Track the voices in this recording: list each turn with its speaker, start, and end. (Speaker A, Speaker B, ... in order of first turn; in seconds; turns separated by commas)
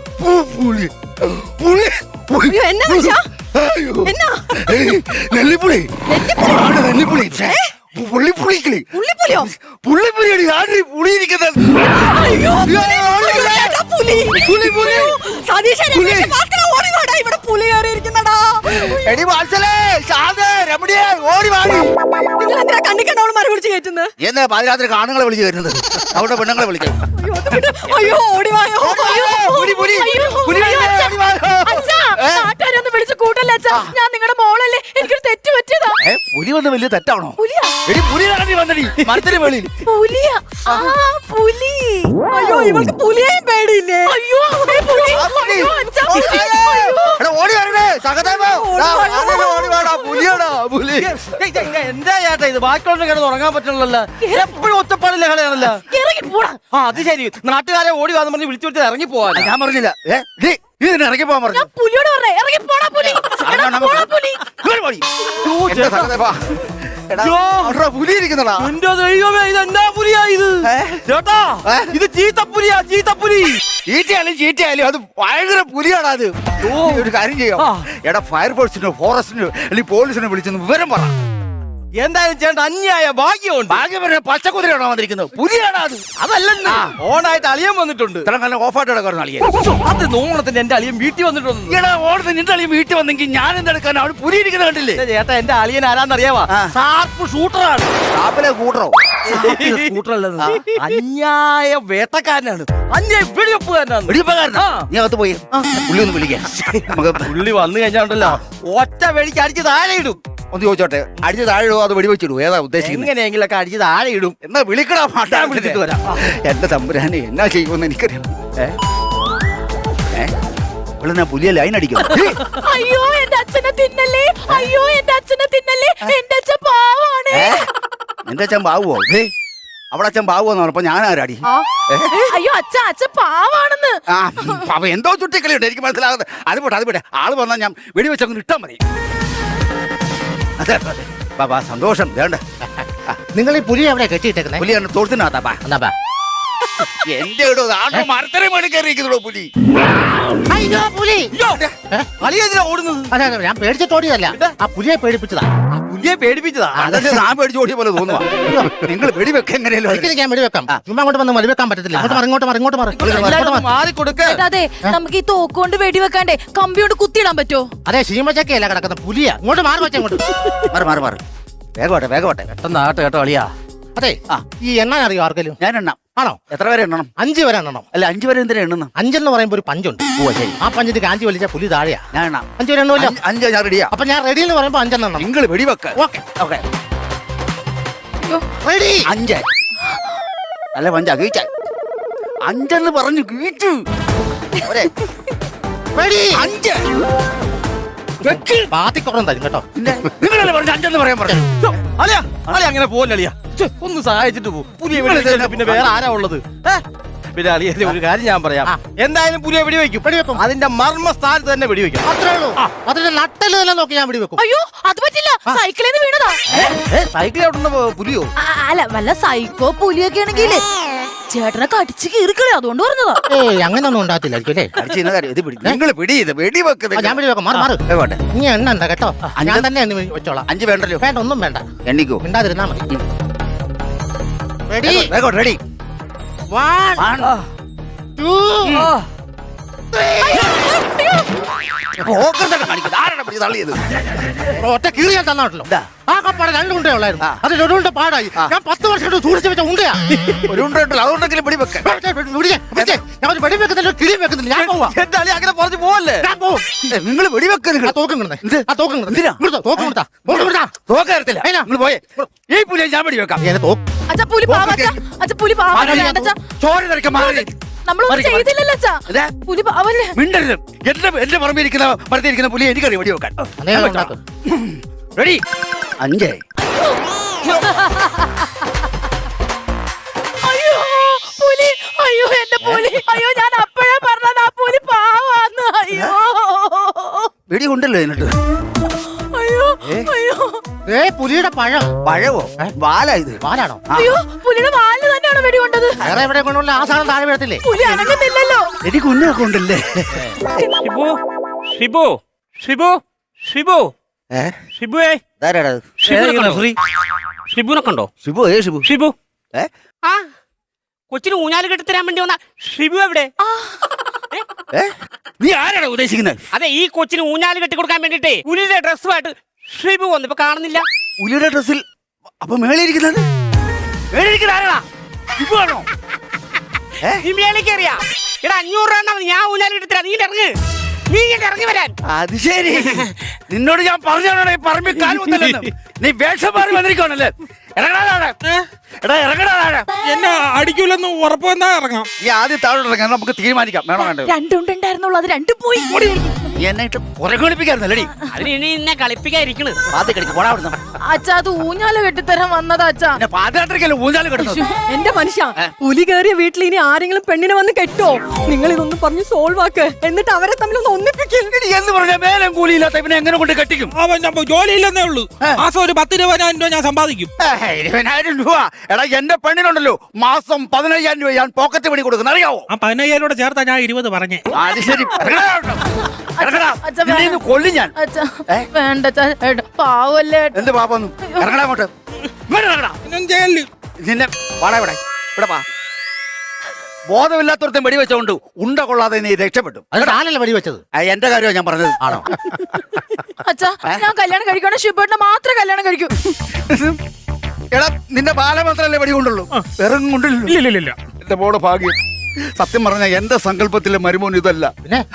Speaker A: 0.2-11.9, Speaker B: 2.5-3.3, Speaker B: 4.0-4.5, Speaker B: 6.1-6.7, Speaker B: 8.9-9.5, Speaker B: 12.0-19.1, Speaker A: 12.6-13.8, Speaker A: 14.3-15.2, Speaker A: 15.9-16.4, Speaker A: 18.7-21.9, Speaker B: 22.2-24.1, Speaker A: 24.2-27.0, Speaker B: 27.1-29.6, Speaker A: 27.8-28.2, Speaker A: 28.8-32.5, Speaker C: 28.9-36.0, Speaker A: 36.0-39.7, Speaker C: 37.4-37.8, Speaker C: 39.8-42.1, Speaker B: 42.3-44.1, Speaker C: 44.0-47.2, Speaker A: 45.1-51.2, Speaker B: 46.1-46.4, Speaker C: 48.6-50.3, Speaker D: 50.9-55.8, Speaker C: 54.2-54.6, Speaker C: 55.9-56.6, Speaker D: 56.7-59.5, Speaker A: 59.3-61.7, Speaker C: 61.5-64.4, Speaker A: 63.0-65.1, Speaker D: 65.4-66.2, Speaker A: 65.7-68.7, Speaker D: 67.2-67.9, Speaker D: 68.6-73.6, Speaker A: 70.6-71.0, Speaker A: 71.6-71.9, Speaker A: 73.9-81.1, Speaker D: 76.6-77.8, Speaker D: 82.0-83.8, Speaker A: 83.7-86.1, Speaker D: 86.2-88.3, Speaker A: 86.6-87.0, Speaker A: 88.2-89.5, Speaker D: 89.5-91.8, Speaker A: 91.7-95.0, Speaker D: 94.9-97.9, Speaker A: 96.5-96.7, Speaker A: 98.1-101.0, Speaker D: 99.3-104.9, Speaker A: 104.1-107.3, Speaker D: 106.7-110.2, Speaker A: 110.5-113.1, Speaker D: 112.8-114.3, Speaker A: 114.4-118.8, Speaker D: 115.3-116.1, Speaker A: 121.0-122.4, Speaker C: 122.5-127.6, Speaker A: 127.3-127.6, Speaker A: 128.2-129.3, Speaker A: 129.9-132.2, Speaker C: 132.2-134.0, Speaker A: 134.1-138.8, Speaker A: 140.6-142.4, Speaker E: 143.3-144.7, Speaker A: 144.6-145.6, Speaker E: 145.6-145.9, Speaker A: 147.1-149.5, Speaker E: 150.5-151.3, Speaker D: 151.3-151.7, Speaker D: 152.2-153.1, Speaker E: 153.1-155.6, Speaker D: 155.7-157.0, Speaker E: 156.8-157.2, Speaker A: 156.8-158.3, Speaker E: 158.4-158.9, Speaker A: 158.8-160.1, Speaker E: 159.9-163.7, Speaker A: 161.9-162.2, Speaker D: 163.0-164.4, Speaker A: 163.0-163.4, Speaker C: 164.2-167.7, Speaker E: 167.8-170.2, Speaker A: 170.7-171.2, Speaker A: 171.8-172.5, Speaker D: 172.5-173.5, Speaker E: 173.9-175.6, Speaker A: 175.6-177.1, Speaker E: 177.2-177.8, Speaker A: 177.9-178.9, Speaker E: 178.9-180.0, Speaker A: 180.2-180.6, Speaker E: 180.6-182.1, Speaker A: 182.1-183.9, Speaker E: 182.6-183.2, Speaker E: 183.9-185.3, Speaker A: 185.2-186.6, Speaker E: 185.9-186.2, Speaker E: 188.6-189.1, Speaker A: 189.1-189.4, Speaker A: 190.7-191.5, Speaker A: 192.4-193.8, Speaker A: 194.6-194.9, Speaker E: 195.9-196.5, Speaker A: 196.3-196.9, Speaker E: 198.2-199.7, Speaker A: 199.8-201.5, Speaker D: 201.6-206.8, Speaker A: 204.9-205.9, Speaker D: 207.3-212.1, Speaker E: 210.0-210.4, Speaker E: 212.0-214.4, Speaker C: 214.4-216.7, Speaker D: 216.5-218.3, Speaker C: 218.4-220.6, Speaker C: 221.3-223.2, Speaker E: 223.3-224.7, Speaker A: 224.8-228.2, Speaker E: 226.9-230.5, Speaker A: 229.4-229.7, Speaker A: 230.5-231.0, Speaker E: 231.0-231.7, Speaker A: 231.8-232.2, Speaker E: 232.2-232.8, Speaker E: 234.7-235.1, Speaker A: 234.8-235.6, Speaker E: 236.5-237.1, Speaker A: 237.0-237.3, Speaker E: 238.2-238.9, Speaker A: 238.7-238.9, Speaker D: 238.7-239.0, Speaker C: 240.2-241.2, Speaker A: 242.0-243.8, Speaker E: 244.6-250.0, Speaker A: 250.5-251.9, Speaker E: 251.8-254.9, Speaker A: 252.7-253.0, Speaker D: 254.5-256.2, Speaker E: 256.2-256.8, Speaker A: 256.9-263.4, Speaker E: 257.8-260.7, Speaker E: 261.4-261.7, Speaker E: 263.4-263.8, Speaker C: 264.1-266.3, Speaker A: 264.5-264.9, Speaker A: 265.7-267.5, Speaker E: 265.8-266.3, Speaker C: 267.1-270.1, Speaker A: 268.1-268.5, Speaker A: 270.1-275.4, Speaker E: 273.6-274.2, Speaker A: 276.0-276.4, Speaker C: 277.4-278.1, Speaker C: 280.4-287.3, Speaker A: 282.6-283.0, Speaker A: 287.5-288.3, Speaker C: 289.3-290.6, Speaker E: 290.9-291.9, Speaker A: 292.0-294.1, Speaker E: 293.4-293.8, Speaker C: 293.9-296.1, Speaker E: 296.0-297.6, Speaker C: 297.6-298.7, Speaker A: 298.8-300.4, Speaker F: 300.8-301.1, Speaker F: 301.7-303.9, Speaker F: 304.8-305.2, Speaker A: 305.4-306.6, Speaker F: 306.0-306.7, Speaker D: 306.1-306.6, Speaker F: 307.5-308.1, Speaker A: 308.2-308.9, Speaker F: 308.8-309.1, Speaker F: 311.1-313.3, Speaker C: 313.4-313.8, Speaker A: 314.7-316.4, Speaker F: 316.5-320.8, Speaker A: 321.2-321.8, Speaker A: 322.4-323.2, Speaker A: 324.1-325.9, Speaker F: 327.2-330.5, Speaker F: 331.1-331.9, Speaker A: 332.1-338.3, Speaker A: 339.0-339.9, Speaker G: 340.0-342.1, Speaker A: 342.2-344.3, Speaker C: 344.0-346.3, Speaker A: 346.6-348.1, Speaker F: 348.3-349.8, Speaker A: 349.9-350.8, Speaker C: 351.1-353.2, Speaker A: 353.1-354.6, Speaker C: 354.4-354.7, Speaker B: 354.9-361.5, Speaker A: 361.4-363.9, Speaker G: 363.9-367.3, Speaker A: 367.4-372.6, Speaker G: 372.7-374.4, Speaker A: 374.5-375.8, Speaker C: 376.1-377.4, Speaker A: 376.4-377.9, Speaker C: 377.9-380.6, Speaker A: 380.5-381.9, Speaker A: 382.5-383.0, Speaker G: 383.1-383.7, Speaker A: 384.0-385.6, Speaker A: 387.1-390.2, Speaker E: 389.9-390.8, Speaker A: 390.9-392.2, Speaker E: 392.0-392.3, Speaker C: 393.4-396.1, Speaker A: 396.7-396.9, Speaker A: 397.7-400.6, Speaker G: 400.5-401.0, Speaker A: 401.2-401.9, Speaker A: 402.6-404.7